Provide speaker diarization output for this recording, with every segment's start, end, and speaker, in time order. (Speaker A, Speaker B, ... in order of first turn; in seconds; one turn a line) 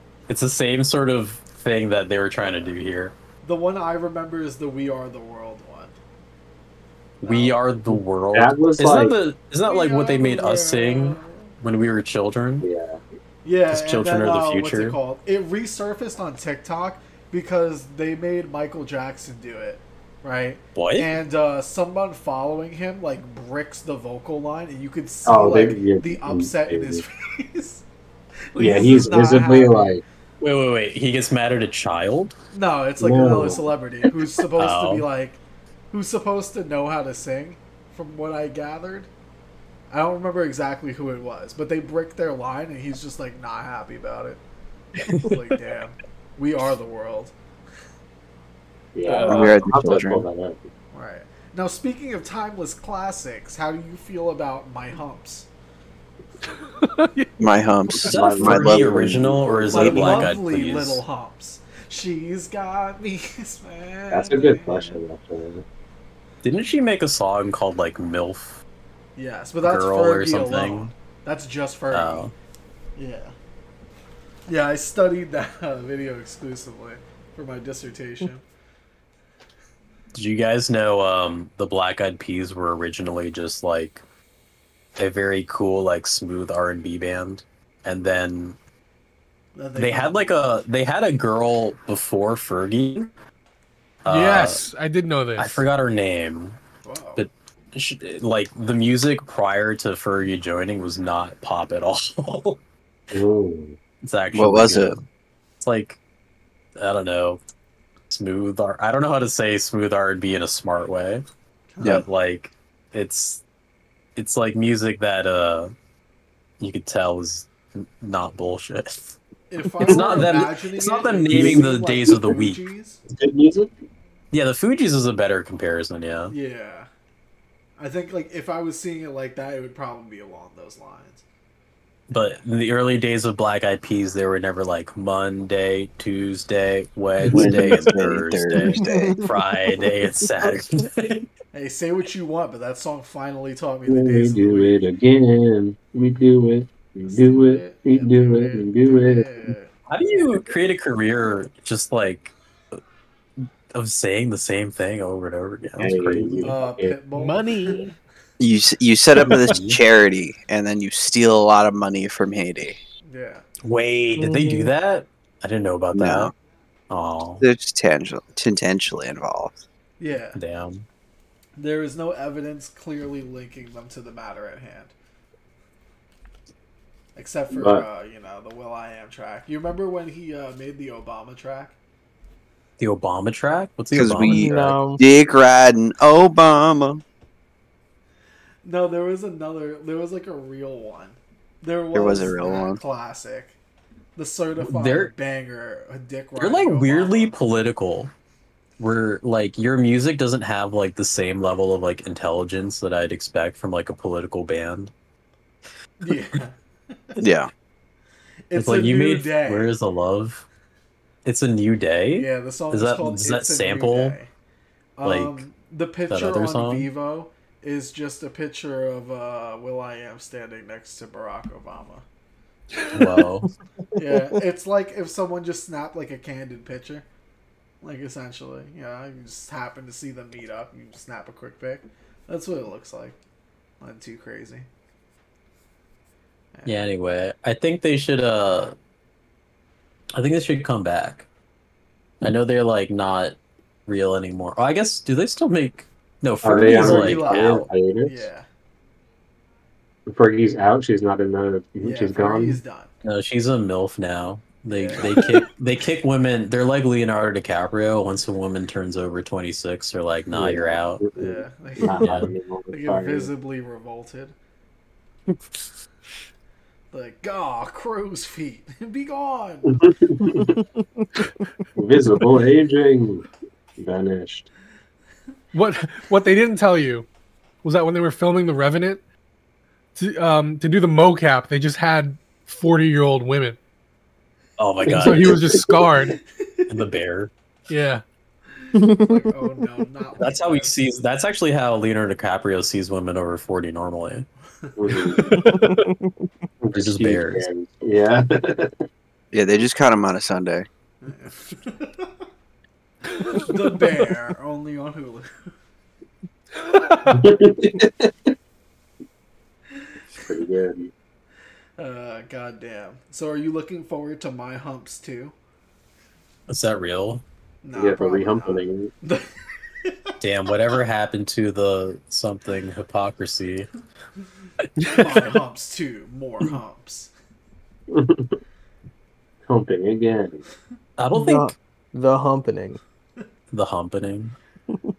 Speaker A: 0.3-3.1
Speaker B: 3.4-6.0
Speaker B: 7.2-7.6
Speaker A: 7.2-12.7
Speaker C: 7.9-9.2
Speaker B: 9.6-11.6
Speaker C: 12.6-13.0
Speaker B: 13.4-27.8
Speaker A: 13.7-15.0
Speaker A: 20.8-21.1
Speaker C: 25.3-27.0
Speaker B: 28.5-30.0
Speaker C: 28.6-30.0
Speaker A: 30.4-32.4
Speaker B: 32.5-39.1
Speaker C: 33.0-33.7
Speaker A: 34.6-35.1
Speaker B: 39.9-44.4
Speaker A: 45.0-45.4
Speaker B: 45.1-47.3
Speaker C: 49.0-50.7
Speaker A: 49.1-49.6
Speaker D: 49.3-50.3
Speaker B: 50.9-55.5
Speaker E: 56.8-57.3
Speaker D: 57.4-59.2
Speaker C: 58.0-60.4
Speaker A: 58.0-61.0
Speaker B: 59.7-65.0
Speaker C: 64.1-65.7
Speaker A: 66.4-68.6
Speaker B: 69.2-72.3
Speaker A: 69.6-70.9
Speaker A: 71.9-72.3
Speaker B: 73.0-73.3
Speaker B: 74.5-78.4
Speaker A: 80.2-84.0
Speaker A: 85.0-88.6
Speaker B: 89.5-90.6
Speaker A: 89.8-93.1
Speaker A: 94.0-94.6
Speaker E: 94.1-95.7
Speaker A: 95.4-96.6
Speaker B: 96.8-97.2
Speaker A: 97.2-102.6
Speaker C: 103.1-103.8
Speaker A: 104.0-105.0
Speaker D: 104.3-105.0
Speaker A: 105.6-106.0
Speaker A: 106.8-107.4
Speaker A: 108.1-111.2
Speaker B: 111.7-112.0
Speaker A: 111.8-113.4
Speaker A: 114.2-115.7
Speaker A: 116.6-119.2
Speaker B: 119.5-123.0
Speaker A: 119.8-122.6
Speaker C: 119.9-120.3
Speaker C: 121.3-122.3
Speaker C: 123.1-123.7
Speaker A: 124.3-126.3
Speaker B: 126.3-126.9
Speaker B: 127.8-131.2
Speaker A: 132.1-141.3
Speaker C: 137.2-137.7
Speaker D: 137.3-139.2
Speaker F: 138.8-139.3
Speaker B: 141.5-144.8
Speaker C: 143.9-149.5
Speaker B: 147.1-149.7
Speaker A: 149.9-152.3
Speaker A: 153.7-156.6
Speaker C: 155.8-157.0
Speaker B: 156.4-157.9
Speaker E: 157.2-157.9
Speaker D: 158.4-162.8
Speaker A: 159.2-159.8
Speaker B: 163.0-163.5
Speaker A: 163.6-166.3
Speaker F: 164.2-164.7
Speaker D: 165.9-166.3
Speaker A: 166.9-167.5
Speaker D: 167.4-169.6
Speaker B: 170.0-170.4
Speaker A: 170.3-170.9
Speaker B: 171.6-174.9
Speaker B: 177.2-181.8
Speaker C: 177.5-177.9
Speaker A: 182.8-184.8
Speaker D: 183.9-187.0
Speaker F: 184.2-185.0
Speaker B: 188.6-193.6
Speaker D: 191.9-192.8
Speaker B: 194.2-197.4
Speaker A: 194.6-195.1
Speaker A: 196.4-198.1
Speaker A: 198.8-204.9
Speaker B: 206.0-207.2
Speaker D: 207.2-207.5
Speaker B: 208.5-209.7
Speaker A: 208.5-210.5
Speaker A: 211.2-214.2
Speaker B: 212.1-214.3
Speaker B: 215.0-222.1
Speaker A: 215.0-215.5
Speaker A: 216.1-216.9
Speaker A: 222.9-223.5
Speaker B: 222.9-223.2
Speaker B: 223.9-227.1
Speaker B: 227.8-233.2
Speaker B: 233.8-234.7
Speaker B: 236.6-236.9
Speaker A: 236.7-238.8
Speaker A: 240.2-241.3
Speaker A: 242.2-247.7
Speaker C: 246.4-248.3
Speaker B: 246.7-248.5
Speaker C: 250.1-252.6
Speaker B: 251.8-252.9
Speaker A: 253.0-261.0
Speaker B: 254.7-255.4
Speaker C: 255.0-255.3
Speaker C: 260.3-263.3
Speaker B: 261.2-262.2
Speaker A: 262.0-262.3
Speaker B: 262.7-264.4
Speaker B: 266.9-269.8
Speaker C: 269.7-270.6
Speaker C: 271.8-274.5
Speaker E: 275.5-277.1
Speaker E: 277.6-279.0
Speaker E: 280.0-283.6
Speaker A: 284.6-285.8
Speaker E: 284.9-286.2
Speaker B: 286.4-286.7
Speaker A: 286.7-287.3
Speaker E: 287.7-288.0
Speaker B: 288.6-290.8
Speaker F: 288.8-289.2
Speaker A: 290.2-294.3
Speaker B: 294.6-295.2
Speaker C: 294.8-295.5
Speaker F: 295.3-296.2
Speaker E: 295.4-295.8
Speaker C: 296.6-298.8
Speaker A: 296.7-297.5
Speaker D: 299.3-300.7
Speaker B: 301.0-302.1
Speaker B: 303.2-305.5
Speaker C: 307.1-308.3
Speaker C: 310.2-310.9
Speaker B: 311.8-315.4
Speaker A: 316.5-317.2
Speaker B: 317.6-319.3
Speaker C: 317.8-318.9
Speaker B: 319.8-320.2
Speaker A: 320.2-323.7
Speaker A: 324.8-325.4
Speaker B: 324.8-327.1
Speaker C: 327.9-328.4
Speaker C: 329.5-330.4
Speaker A: 331.0-331.6
Speaker F: 331.1-332.8
Speaker A: 333.5-334.4